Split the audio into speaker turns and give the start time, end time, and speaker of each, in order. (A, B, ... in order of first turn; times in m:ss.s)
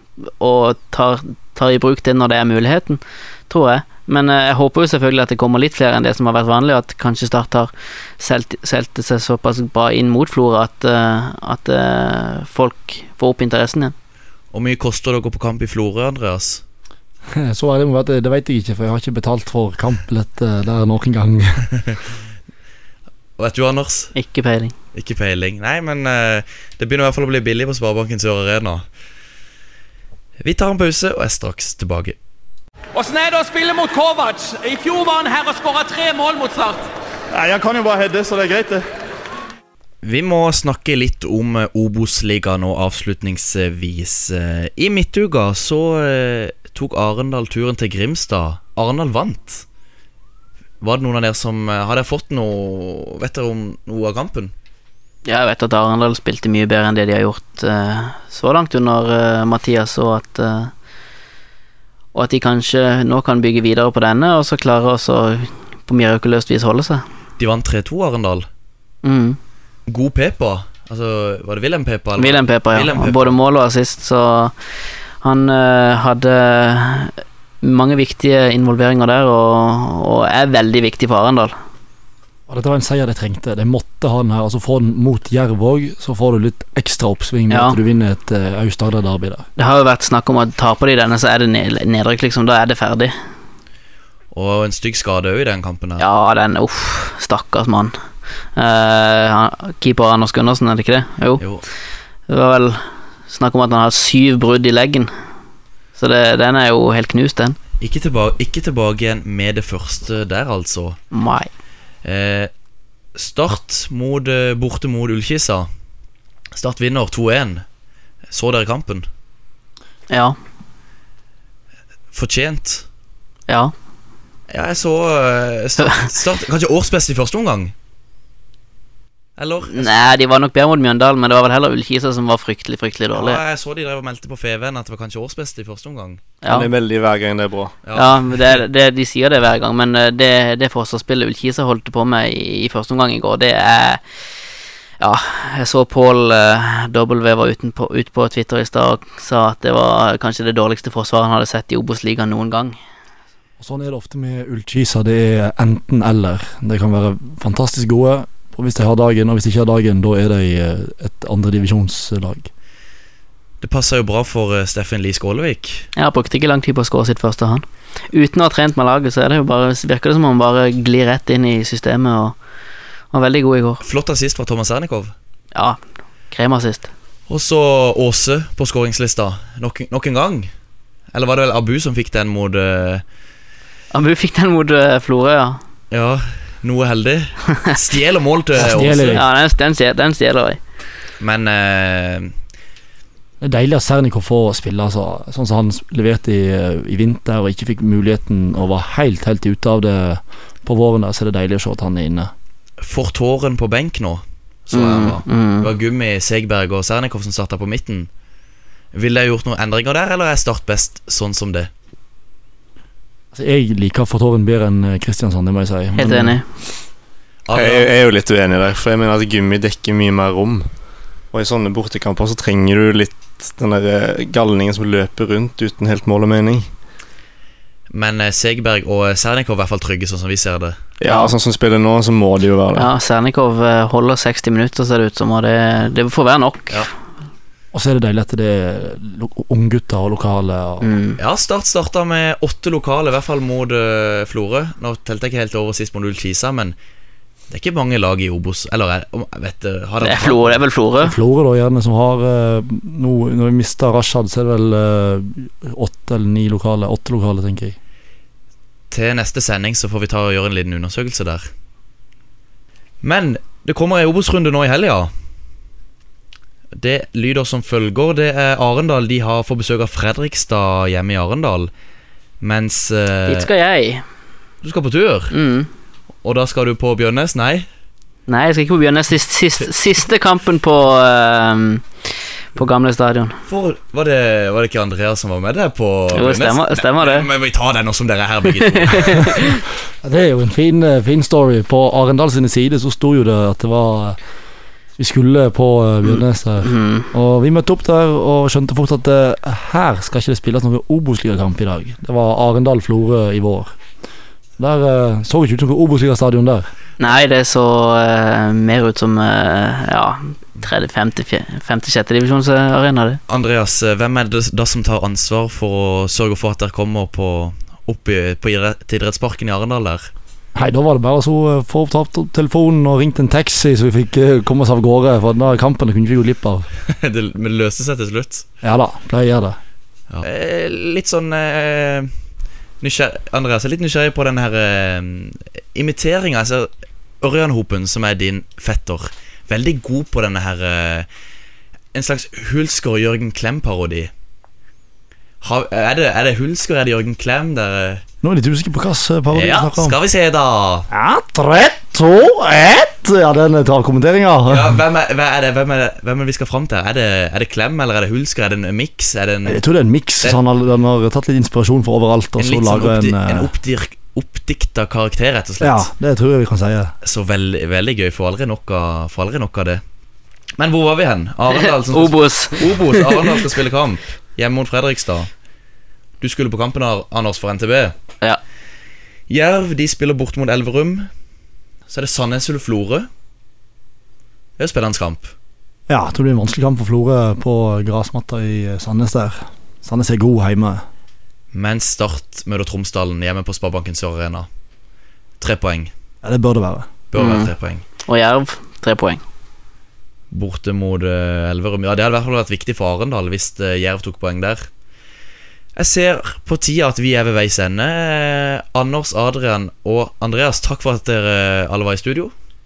0:00.3-0:13.9 A
0:14.5-0:16.6 B
0:17.3-0:21.7 C
0:23.4-0:24.1 B
0:24.1-0:24.7 A
0:24.9-0:28.8 B
0:30.4-0:32.2 B
0:32.9-0:38.8 D
0:40.0-0:49.6 B
0:50.8-0:54.5 B
0:55.2-1:00.7 A
1:02.1-1:07.0 A
1:07.4-1:08.5 B
1:09.0-1:09.4 A
1:09.9-1:13.4 B
1:12.2-1:14.5 A
1:15.2-1:21.5 A
1:22.5-1:29.4 C
1:27.5-1:27.8 A
1:29.6-1:33.1 A
1:34.3-1:36.0 B
1:36.0-1:37.9 A
1:38.5-1:41.4 A
1:41.4-1:41.6 B
1:42.3-1:45.1 A
1:46.0-1:47.6 A
1:47.8-1:51.0 B
1:51.1-1:51.5 A
1:52.0-1:52.5 B
1:53.1-1:55.7 B
1:56.5-1:57.6 B
1:58.3-1:59.1 B
2:00.1-2:00.4 A
2:02.1-2:02.8 B
2:04.5-2:07.7 B
2:05.8-2:06.1 A
2:09.4-2:10.0 B
2:09.7-2:13.4 A
2:13.1-2:16.2 B
2:16.5-2:17.7 E
2:17.8-2:18.6 B
2:17.9-2:24.0 A
2:25.0-2:32.8 A
2:33.6-2:42.5 C
2:43.6-2:45.9 B
2:46.0-2:52.4 A
2:53.1-2:53.8 A
2:53.8-2:55.1 B
2:56.3-2:56.9 A
2:57.3-3:00.5 B
3:01.1-3:03.0 B
3:03.9-3:05.6 A
3:05.9-3:09.2 B
3:08.6-3:09.2 C
3:09.0-3:10.6 A
3:11.2-3:12.3 B
3:13.4-3:22.3 C
3:22.8-3:28.1 B
3:24.7-3:25.7 A
3:28.9-3:31.7 B
3:33.3-3:36.4 C
3:36.0-3:36.4 A
3:37.5-3:37.9 B
3:37.5-3:40.6 E
3:41.3-3:46.7 E
3:47.9-3:50.8 B
3:51.0-3:52.9 E
3:51.0-3:51.3 A
3:52.8-3:56.9 A
3:57.7-4:00.9 C
4:00.8-4:01.2 A
4:01.2-4:06.8 B
4:07.5-4:10.6 B
4:10.0-4:11.1 A
4:11.0-4:17.8 C
4:18.9-4:21.5 B
4:23.0-4:25.1 B
4:26.8-4:31.7 B
4:32.4-4:33.5 B
4:33.3-4:34.0 A
4:34.6-4:35.3 B
4:35.3-4:35.7 A
4:36.2-4:37.7 B
4:38.3-4:41.8 A
4:42.6-4:43.4 A
4:43.4-4:49.4 B
4:46.1-4:47.3 A
4:48.6-4:49.6 A
4:50.0-4:54.2 C
4:55.0-5:03.7 C
4:56.0-4:57.1 A
5:04.6-5:06.7 C
5:07.0-5:13.2 A
5:13.3-5:20.1 B
5:20.5-5:26.7 C
5:26.9-5:28.4 B
5:28.6-5:29.6 C
5:30.1-5:32.1 B
5:32.8-5:36.7 B
5:37.2-5:41.1 B
5:41.9-5:44.1 B
5:45.4-5:48.0 B
5:48.2-5:50.0 C
5:49.3-5:50.9 B
5:50.9-5:54.8 C
5:54.5-5:59.6 B
5:59.4-6:03.5 C
6:02.4-6:05.9 B
6:05.6-6:06.9 C
6:07.0-6:09.8 B
6:10.6-6:15.3 B
6:11.5-6:13.3 A
6:16.2-6:17.9 B
6:19.3-6:21.1 B
6:21.9-6:23.1 B
6:24.6-6:25.3 B
6:25.9-6:30.8 C
6:31.5-6:34.5 B
6:35.4-6:35.9 B
6:36.2-6:36.9 C
6:37.1-6:37.8 B
6:37.1-6:37.5 A
6:38.1-6:39.2 A
6:40.3-6:44.7 B
6:45.8-6:52.3 B